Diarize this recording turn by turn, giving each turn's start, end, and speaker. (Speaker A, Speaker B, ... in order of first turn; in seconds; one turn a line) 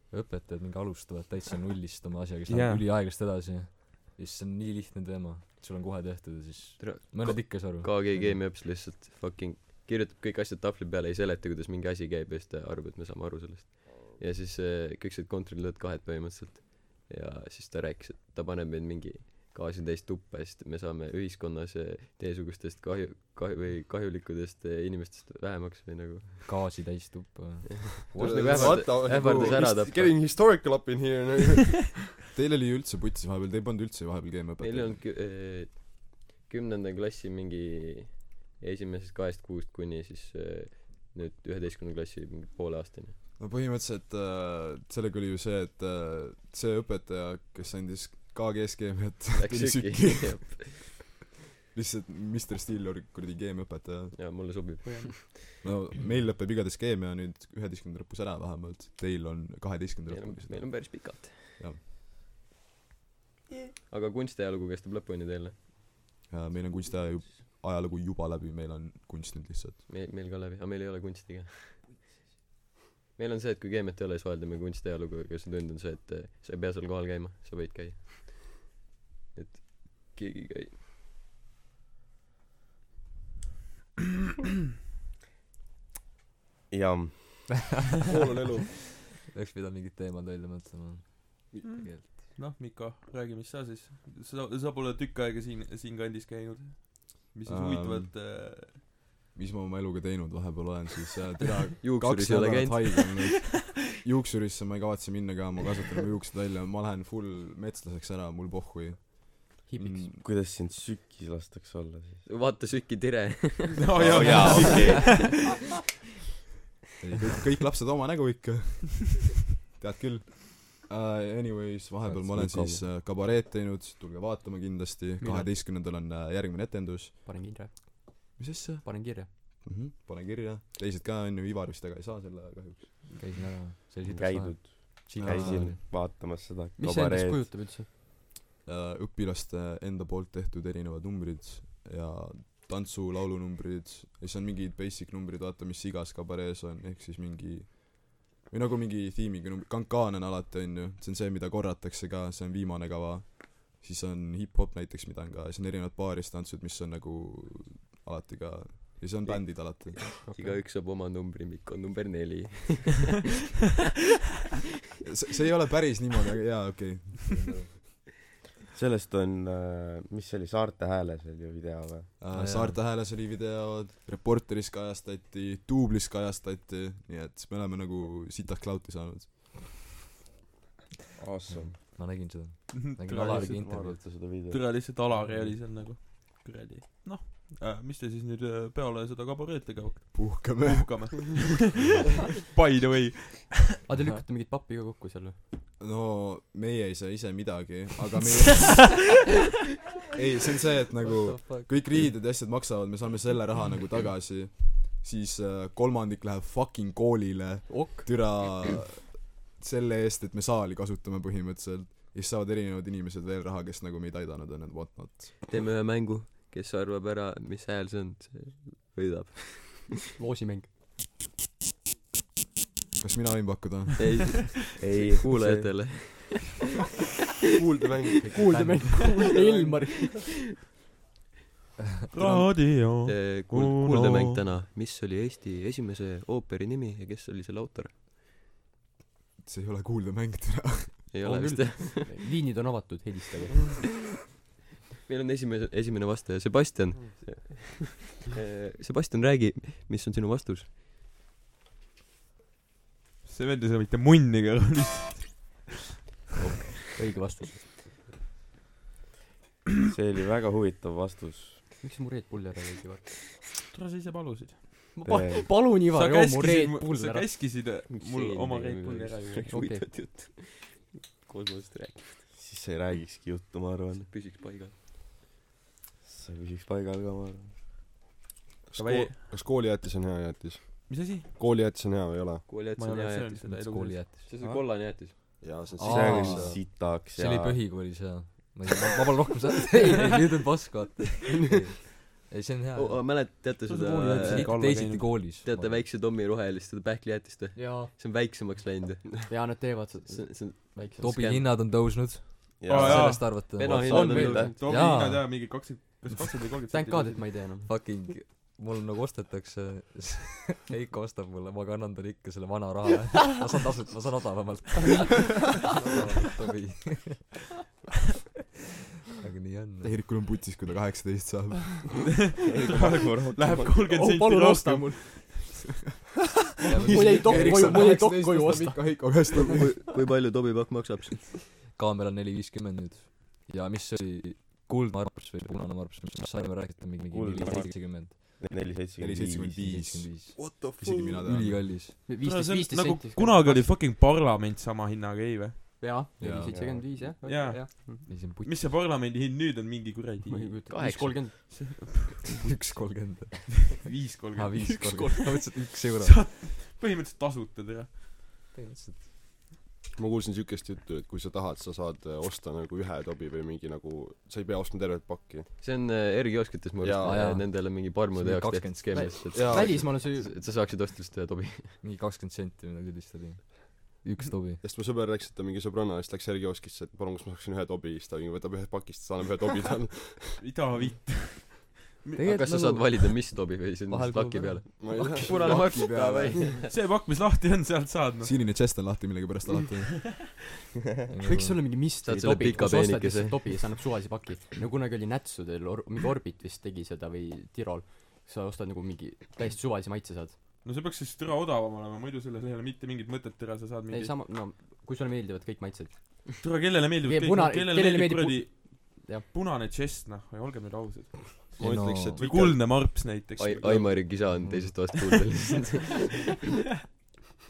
Speaker A: 0.1-8.4
Speaker B: 2.5-2.9
Speaker C: 6.8-26.8
Speaker A: 26.4-29.1
Speaker C: 27.7-30.3
Speaker D: 28.1-32.0
Speaker E: 28.4-29.4
Speaker E: 32.3-35.0
Speaker C: 34.6-43.2
Speaker E: 43.4-51.1
Speaker C: 49.4-51.0
Speaker E: 51.7-54.6
Speaker C: 54.1-55.5
Speaker E: 55.6-61.8
Speaker C: 60.1-61.6
Speaker C: 63.9-65.6
Speaker E: 66.3-69.9
Speaker C: 69.9-71.9
Speaker C: 73.2-78.7
Speaker C: 79.3-80.8
Speaker F: 86.7-87.5
Speaker D: 88.0-88.7
Speaker A: 89.3-92.3
Speaker D: 91.5-91.8
Speaker B: 91.6-98.8
Speaker E: 97.5-98.1
Speaker E: 99.3-110.2
Speaker C: 101.8-103.1
Speaker G: 109.7-110.1
Speaker F: 110.2-112.2
Speaker C: 112.2-115.4
Speaker B: 113.8-115.3
Speaker F: 113.9-115.4
Speaker E: 117.0-127.8
Speaker F: 122.1-122.8
Speaker G: 125.2-125.5
Speaker G: 127.2-129.3
Speaker E: 128.4-133.1
Speaker A: 133.2-135.8
Speaker F: 134.0-137.5
Speaker E: 135.2-135.8
Speaker G: 136.8-137.9
Speaker E: 138.7-160.1
Speaker C: 159.3-163.2
Speaker G: 160.3-160.6
Speaker E: 165.0-167.4
Speaker F: 168.7-172.2
Speaker E: 172.2-179.5
Speaker A: 172.3-172.8
Speaker F: 181.2-181.8
Speaker A: 181.5-184.3
Speaker B: 182.7-193.7
Speaker F: 183.1-184.9
Speaker A: 185.1-185.6
Speaker E: 190.1-191.2
Speaker G: 193.9-195.4
Speaker A: 194.0-194.2
Speaker E: 195.8-199.1
Speaker E: 200.1-215.5
Speaker A: 201.1-202.1
Speaker G: 207.7-208.4
Speaker C: 215.5-220.0
Speaker G: 220.2-220.7
Speaker E: 223.0-224.4
Speaker C: 224.0-226.6
Speaker F: 224.8-225.9
Speaker D: 227.6-228.7
Speaker G: 228.3-230.2
Speaker A: 228.4-228.9
Speaker D: 229.3-229.8
Speaker B: 232.1-234.4
Speaker C: 233.0-237.9
Speaker E: 239.4-241.1
Speaker C: 241.1-242.2
Speaker G: 241.2-243.9
Speaker C: 245.1-250.7
Speaker B: 253.2-255.7
Speaker G: 256.9-257.7
Speaker F: 259.9-261.6
Speaker G: 261.8-263.2
Speaker B: 263.7-264.6
Speaker G: 265.0-267.3
Speaker F: 265.1-265.6
Speaker B: 265.8-269.6
Speaker C: 267.9-272.3
Speaker G: 269.5-269.9
Speaker F: 272.3-274.1
Speaker C: 274.1-274.8
Speaker F: 276.0-277.5
Speaker D: 278.7-282.5
Speaker B: 278.8-279.2
Speaker B: 280.9-281.3
Speaker C: 282.5-283.4
Speaker B: 282.7-284.0
Speaker A: 283.4-284.3
Speaker C: 284.2-285.3
Speaker D: 285.4-286.6
Speaker A: 285.8-293.5
Speaker F: 285.8-287.9
Speaker C: 291.3-291.9
Speaker C: 292.7-294.6
Speaker B: 293.7-295.2
Speaker A: 294.1-295.9
Speaker C: 295.4-299.1
Speaker G: 297.6-297.9
Speaker G: 299.3-301.1
Speaker C: 299.6-301.6
Speaker A: 301.0-305.3
Speaker F: 302.6-303.4
Speaker B: 302.7-307.3
Speaker C: 302.9-304.7
Speaker G: 303.9-304.6
Speaker G: 306.7-307.7
Speaker A: 307.6-317.4
Speaker A: 319.2-320.0
Speaker E: 319.8-322.2
Speaker B: 322.2-325.6
Speaker F: 322.5-323.9
Speaker G: 323.8-325.1
Speaker A: 326.7-328.0
Speaker G: 326.7-329.4
Speaker E: 327.0-329.8
Speaker C: 329.5-331.4
Speaker A: 331.6-338.4
Speaker F: 337.1-339.7
Speaker E: 339.0-341.8
Speaker A: 339.6-340.4
Speaker D: 340.4-341.2
Speaker A: 341.2-342.0
Speaker B: 342.0-345.8
Speaker G: 342.1-343.8
Speaker G: 345.8-348.1
Speaker E: 346.2-346.6
Speaker F: 346.5-346.9
Speaker B: 347.2-350.7
Speaker A: 348.1-348.8
Speaker G: 350.3-351.7
Speaker A: 350.8-351.5
Speaker B: 351.2-352.3
Speaker A: 352.3-356.3
Speaker B: 353.6-355.1
Speaker G: 354.6-355.4
Speaker B: 356.0-358.1
Speaker A: 358.5-359.1
Speaker D: 360.0-365.5
Speaker C: 365.6-371.8
Speaker D: 366.8-367.3
Speaker A: 367.0-369.4
Speaker G: 368.9-370.4
Speaker D: 369.3-370.0
Speaker A: 371.8-374.6
Speaker D: 374.6-380.4
Speaker B: 380.4-382.3
Speaker A: 382.2-385.1
Speaker C: 382.2-386.7
Speaker D: 384.8-385.8
Speaker E: 385.2-386.6
Speaker B: 386.7-388.4
Speaker E: 388.2-390.4
Speaker A: 391.1-392.5
Speaker G: 391.2-400.4
Speaker C: 392.0-393.5
Speaker B: 400.6-404.1
Speaker G: 403.9-406.4
Speaker B: 406.4-414.1
Speaker G: 407.1-409.2
Speaker D: 411.6-413.1
Speaker A: 411.6-412.3
Speaker C: 412.7-416.2
Speaker D: 413.7-414.0
Speaker A: 414.3-414.8